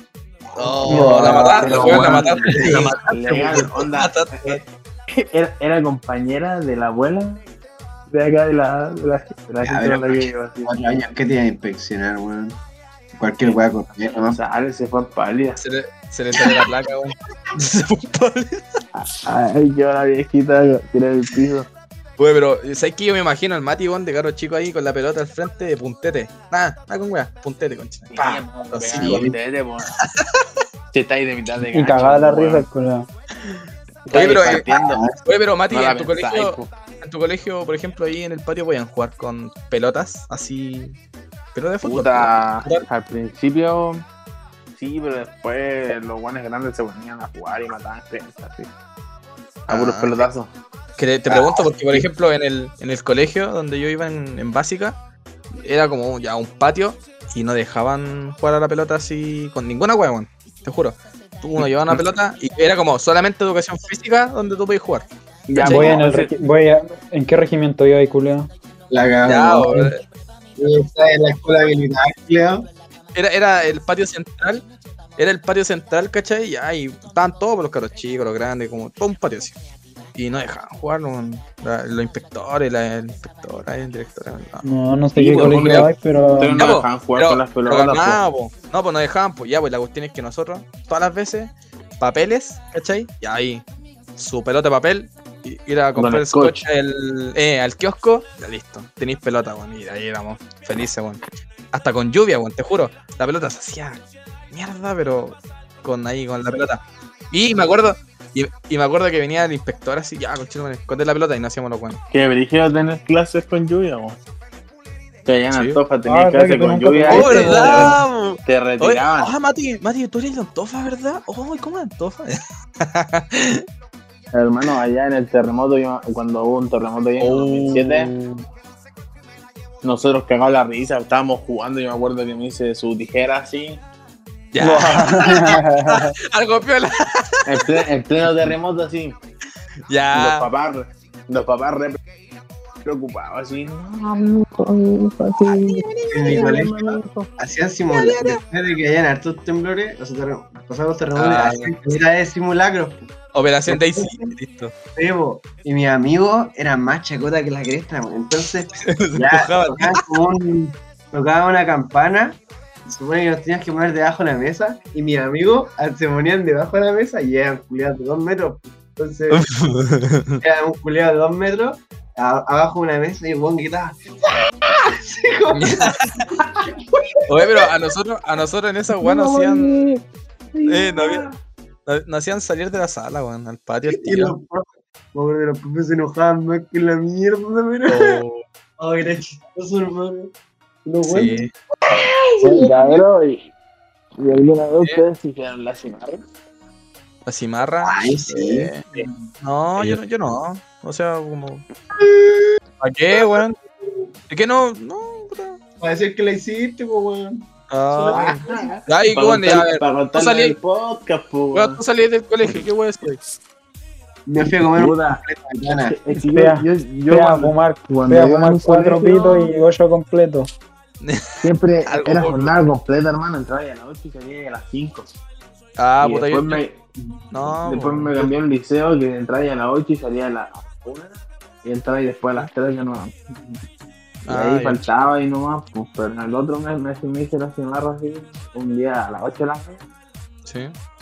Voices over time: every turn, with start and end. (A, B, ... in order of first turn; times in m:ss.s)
0:00.5-0:03.4 A
0:00.6-0:04.6 B
0:00.9-0:01.5 C
0:01.0-0:04.6 D
0:05.2-0:07.4 D
0:08.1-0:10.8 D
0:09.6-0:12.6 A
0:13.1-0:14.4 A
0:14.2-0:15.6 D
0:15.6-0:18.6 B
0:18.9-0:21.7 D
0:22.2-0:28.1 B
0:28.1-0:29.9 D
0:28.2-0:28.4 A
0:28.7-0:29.3 B
0:28.9-0:29.3 A
0:30.0-0:30.4 B
0:30.9-0:32.6 D
0:31.7-0:33.1 C
0:34.1-0:35.0 D
0:34.1-0:34.6 B
0:34.4-0:35.2 A
0:35.2-0:41.0 B
0:35.7-0:36.7 D
0:41.5-0:42.8 B
0:41.8-0:44.0 D
0:44.8-0:48.7 D
0:49.7-0:50.2 B
0:49.7-0:50.5 D
0:51.0-0:55.0 B
0:51.3-0:52.1 A
0:55.6-1:06.0 B
1:05.5-1:06.3 D
1:05.6-1:08.5 C
1:05.7-1:06.0 A
1:08.9-1:09.9 A
1:09.2-1:10.0 B
1:10.6-1:12.7 A
1:13.1-1:14.6 B
1:15.2-1:19.6 B
1:20.1-1:24.6 B
1:24.6-1:26.7 C
1:25.2-1:28.2 D
1:25.4-1:25.9 B
1:26.5-1:33.6 B
1:34.2-1:44.0 B
1:35.9-1:36.6 D
1:44.5-1:52.0 B
1:52.1-1:54.2 D
1:55.2-1:59.3 D
1:55.5-1:55.8 B
1:56.0-1:58.0 C
1:57.1-2:03.6 B
2:04.3-2:08.1 D
2:07.2-2:07.9 B
2:08.1-2:08.4 C
2:09.8-2:13.8 D
2:14.5-2:17.8 B
2:14.6-2:16.1 C
2:17.4-2:19.2 D
2:19.9-2:20.5 B
2:20.1-2:22.0 D
2:22.8-2:27.3 D
2:25.4-2:26.5 B
2:26.1-2:33.0 A
2:27.9-2:28.4 B
2:31.2-2:31.7 B
2:33.3-2:34.7 B
2:33.7-2:34.3 A
2:34.9-2:49.4 A
2:38.9-2:40.0 B
2:49.3-2:50.4 B
2:50.4-2:57.6 A
2:55.5-2:56.2 B
2:57.3-2:59.9 B
2:59.0-3:00.0 D
3:00.6-3:01.2 D
3:00.6-3:01.2 B
3:01.8-3:04.4 B
3:03.9-3:08.2 A
3:07.9-3:08.4 B
3:08.8-3:10.3 A
3:10.8-3:13.0 A
3:11.0-3:11.5 B
3:12.4-3:13.5 D
3:14.2-3:16.2 D
3:17.2-3:21.6 B
3:17.8-3:19.0 A
3:22.0-3:22.6 A
3:22.8-3:23.5 B
3:23.1-3:24.0 A
3:24.3-3:25.6 B
3:25.8-3:28.7 A
3:27.7-3:30.5 B
3:28.1-3:31.8 D
3:31.5-3:33.2 B
3:34.2-3:36.0 A
3:34.7-3:35.2 D
3:35.7-3:39.5 D
3:36.1-3:40.5 C
3:41.0-3:42.6 B
3:41.4-3:45.1 D
3:45.8-3:46.6 B
3:46.0-3:46.8 D
3:47.3-3:48.1 B
3:47.4-3:53.6 D
3:54.2-3:59.8 D
3:54.3-3:54.8 B
4:00.4-4:00.7 B